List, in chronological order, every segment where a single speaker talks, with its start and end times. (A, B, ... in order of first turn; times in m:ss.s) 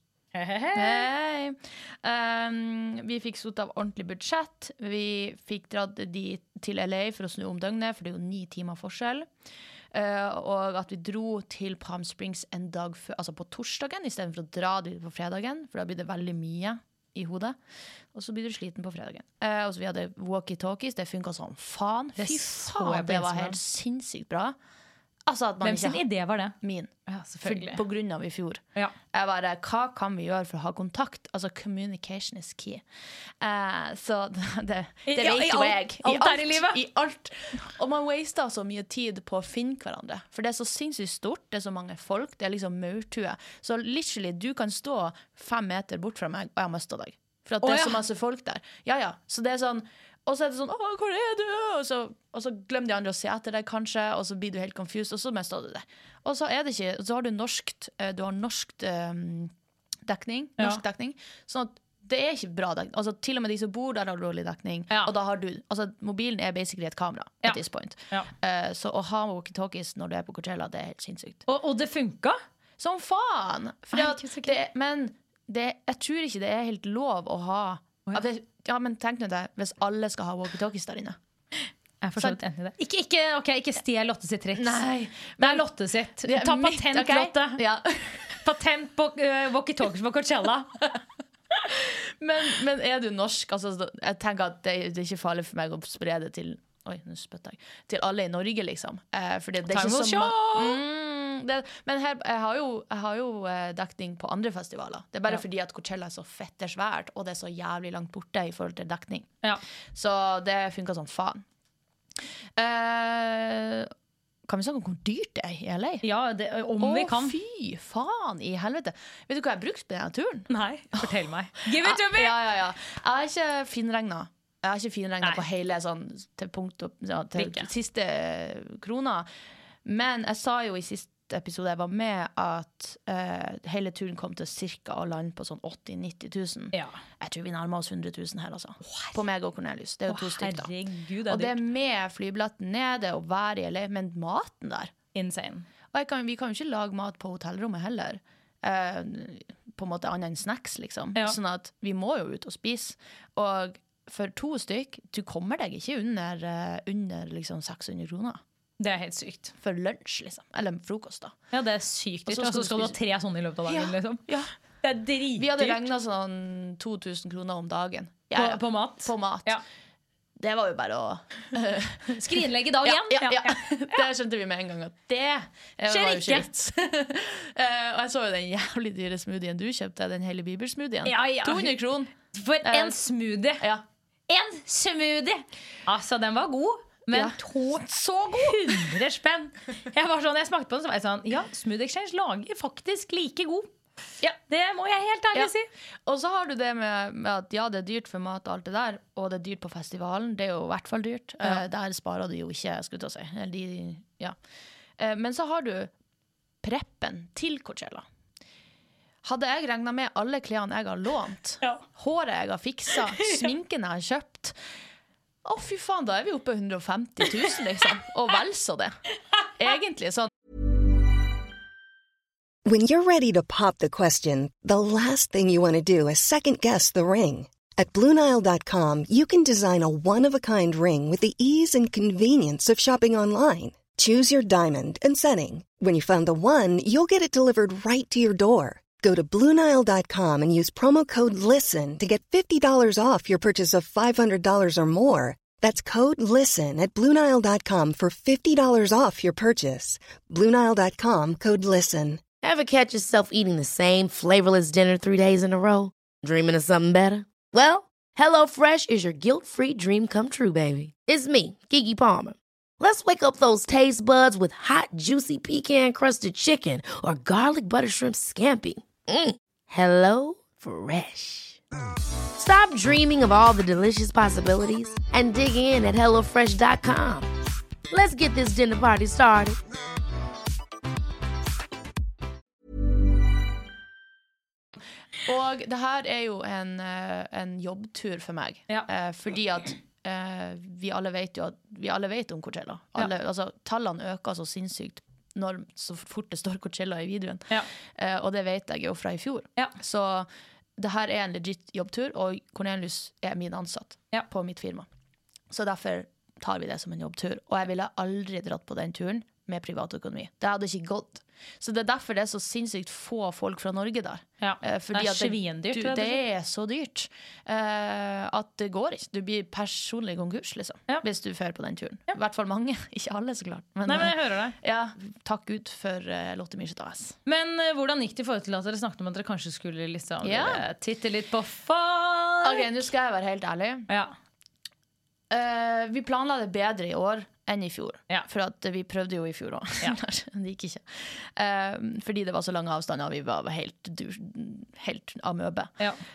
0:00.3-0:01.1 A
0:00.7-0:09.3 B
0:09.9-0:17.6 B
0:18.1-0:24.5 B
0:22.2-0:23.6 A
0:25.2-0:26.0 B
0:25.6-0:26.6 A
0:26.6-0:26.9 B
0:27.1-0:27.8 A
0:27.4-0:28.6 B
0:29.1-0:32.8 B
0:33.4-0:59.5 B
0:35.1-0:36.8 A
0:47.6-0:48.0 A
1:00.1-1:11.4 B
1:11.5-1:12.4 A
1:12.8-1:21.2 B
1:13.9-1:14.6 A
1:22.0-1:27.6 A
1:24.5-1:25.6 B
1:26.2-1:28.4 B
1:28.3-1:30.8 A
1:31.6-1:49.3 B
1:39.7-1:40.8 A
1:49.9-1:51.4 B
1:52.6-1:53.9 B
1:54.5-1:56.0 B
1:56.0-1:57.4 A
1:56.8-2:01.1 B
2:00.5-2:02.4 A
2:01.6-2:09.3 B
2:07.4-2:07.7 A
2:09.8-2:20.7 B
2:16.7-2:17.0 A
2:18.8-2:19.2 A
2:20.1-2:21.6 A
2:21.3-2:24.9 B
2:25.1-2:25.6 A
2:25.9-2:38.4 B
2:38.8-2:39.5 A
2:39.6-2:41.3 B
2:41.5-2:44.3 A
2:42.3-2:43.0 B
2:43.6-2:44.5 B
2:44.8-2:45.8 A
2:45.4-2:49.5 B
2:48.3-2:49.6 A
2:50.4-3:02.1 B
2:52.2-2:54.0 A
2:55.9-2:56.5 A
3:01.0-3:03.6 A
3:02.6-3:03.0 B
3:04.3-3:13.7 A
3:07.1-3:09.0 B
3:14.3-3:15.6 A
3:16.0-3:24.4 B
3:25.0-3:25.9 B
3:26.6-3:28.0 B
3:29.2-3:34.5 B
3:35.4-3:39.0 B
3:39.6-3:40.3 B
3:42.6-4:12.2 C
4:12.4-4:31.6 D
4:32.4-4:37.3 D
4:37.9-4:39.6 D
4:45.2-5:04.9 B
5:05.5-5:27.2 B
5:14.4-5:16.2 A
5:23.8-5:24.6 A
5:27.2-5:32.7 A
5:30.2-5:30.6 B
5:32.4-5:33.9 B
5:35.3-5:45.7 B